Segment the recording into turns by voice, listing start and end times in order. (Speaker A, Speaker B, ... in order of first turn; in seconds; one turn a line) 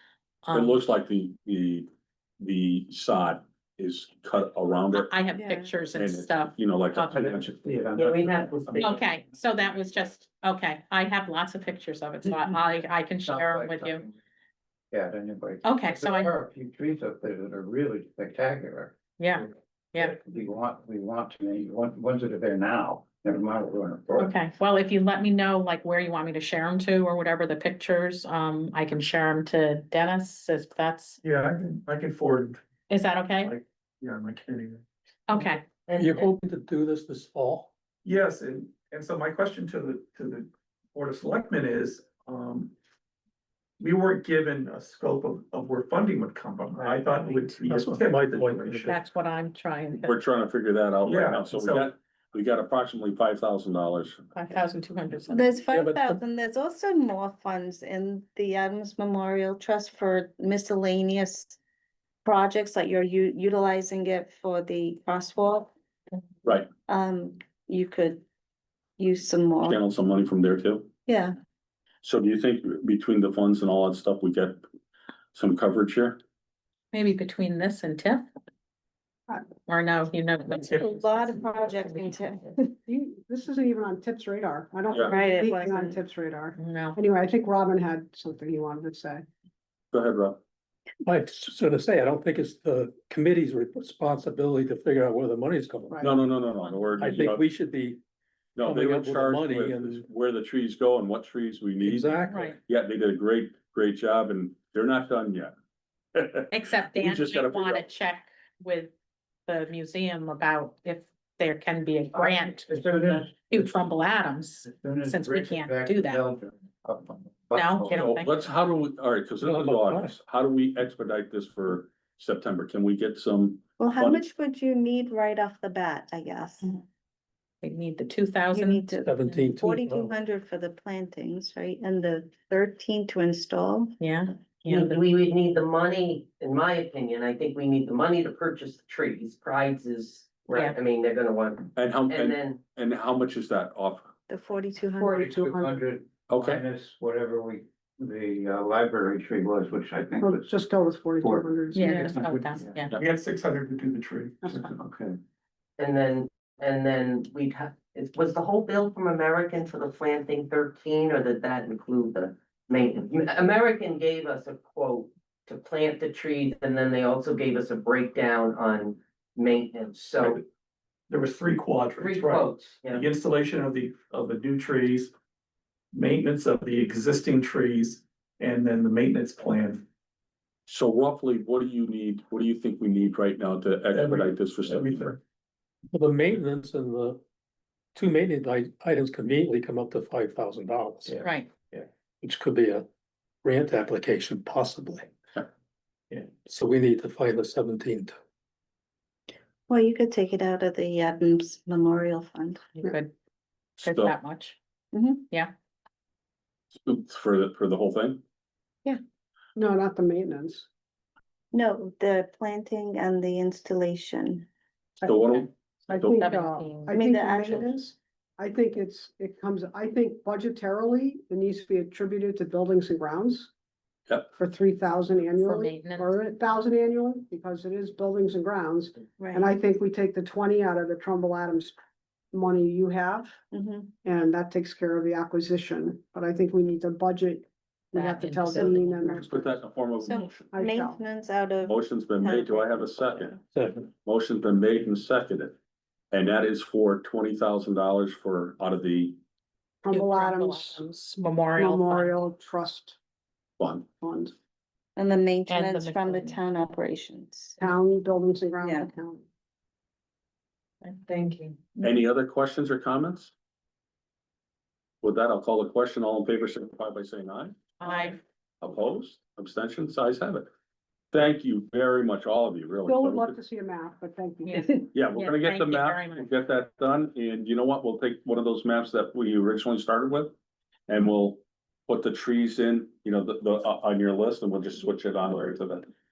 Speaker A: 0.4-0.8
Speaker B: 0.5-1.9
Speaker B: 2.4-5.1
Speaker A: 4.9-7.2
Speaker C: 5.3-5.7
Speaker B: 6.0-7.6
Speaker D: 7.0-8.9
Speaker E: 8.0-9.0
Speaker A: 8.8-14.0
Speaker D: 13.2-14.1
Speaker D: 14.9-18.9
Speaker A: 15.6-16.3
Speaker A: 19.2-20.2
Speaker D: 20.0-24.3
Speaker A: 24.1-31.2
Speaker F: 31.2-32.6
Speaker A: 32.9-33.5
Speaker F: 33.4-34.8
Speaker A: 35.3-35.6
Speaker E: 35.9-36.2
Speaker G: 36.0-37.7
Speaker F: 38.0-42.7
Speaker F: 43.8-49.0
Speaker G: 47.6-48.9
Speaker A: 48.9-50.2
Speaker B: 50.0-54.2
Speaker F: 51.0-51.9
Speaker A: 54.3-55.5
Speaker C: 55.3-61.6
Speaker G: 55.7-56.2
Speaker C: 62.2-65.7
Speaker C: 66.9-68.2
Speaker C: 69.0-69.8
Speaker B: 69.6-70.9
Speaker C: 71.1-71.3
Speaker B: 72.0-74.6
Speaker B: 75.3-76.2
Speaker A: 76.9-78.2
Speaker A: 79.7-82.1
Speaker C: 80.6-82.7
Speaker H: 82.9-89.2
Speaker C: 85.0-86.0
Speaker A: 86.6-87.0
Speaker B: 89.9-90.4
Speaker G: 91.0-96.0
Speaker H: 95.9-96.2
Speaker B: 96.0-97.4
Speaker A: 96.6-97.2
Speaker G: 97.0-98.0
Speaker B: 98.5-102.1
Speaker G: 98.6-100.0
Speaker G: 101.8-102.6
Speaker A: 102.3-102.6
Speaker B: 102.7-105.5
Speaker B: 106.1-107.9
Speaker A: 106.5-108.9
Speaker A: 109.5-116.2
Speaker D: 112.1-113.7
Speaker D: 114.6-118.1
Speaker A: 117.5-118.4
Speaker B: 118.0-124.2
Speaker G: 119.4-120.1
Speaker C: 123.8-126.8
Speaker A: 127.6-129.4
Speaker C: 128.5-133.9
Speaker G: 128.9-130.1
Speaker A: 134.0-134.9
Speaker E: 134.7-142.6
Speaker B: 141.8-144.1
Speaker C: 144.3-145.3
Speaker H: 144.9-145.8
Speaker D: 145.1-152.9
Speaker B: 146.3-146.6
Speaker H: 150.2-152.2
Speaker A: 151.7-152.9
Speaker F: 152.9-154.7
Speaker D: 154.7-155.2
Speaker E: 155.8-170.4
Speaker F: 171.1-175.1
Speaker E: 172.0-173.1
Speaker F: 175.9-179.8
Speaker B: 180.7-185.1
Speaker F: 183.9-185.2
Speaker G: 185.9-187.2
Speaker G: 187.9-191.2
Speaker F: 191.1-191.9
Speaker A: 191.2-191.5
Speaker G: 192.2-192.9
Speaker G: 193.4-195.1
Speaker F: 196.1-196.4
Speaker G: 196.4-198.2
Speaker C: 199.7-202.6
Speaker A: 202.8-203.1
Speaker B: 203.8-204.1
Speaker A: 203.8-204.6
Speaker C: 204.9-205.3
Speaker B: 206.8-208.2
Speaker H: 209.6-210.7
Speaker C: 211.5-214.5
Speaker B: 215.1-215.4
Speaker A: 215.2-217.0
Speaker H: 215.9-223.5
Speaker C: 216.9-217.8
Speaker H: 224.3-231.8
Speaker A: 225.4-226.2
Speaker C: 229.2-229.5
Speaker H: 232.3-233.3
Speaker C: 233.5-233.9
Speaker H: 234.0-239.6
Speaker A: 237.9-239.3
Speaker B: 239.2-240.5
Speaker C: 240.0-243.3
Speaker H: 240.5-241.0
Speaker B: 241.7-245.5
Speaker B: 246.1-249.2
Speaker H: 249.8-251.0
Speaker A: 249.9-252.1
Speaker H: 251.6-252.9
Speaker B: 253.6-253.9
Speaker H: 254.0-254.3
Speaker C: 254.9-257.6
Speaker A: 255.5-256.4
Speaker H: 257.6-259.2
Speaker C: 258.6-258.9
Speaker A: 260.8-261.9
Speaker B: 261.8-263.3
Speaker B: 265.0-267.6
Speaker A: 267.8-268.2
Speaker B: 268.6-270.5
Speaker B: 271.1-273.3
Speaker H: 272.9-274.9
Speaker A: 274.4-276.3
Speaker B: 274.9-280.3
Speaker B: 280.9-285.9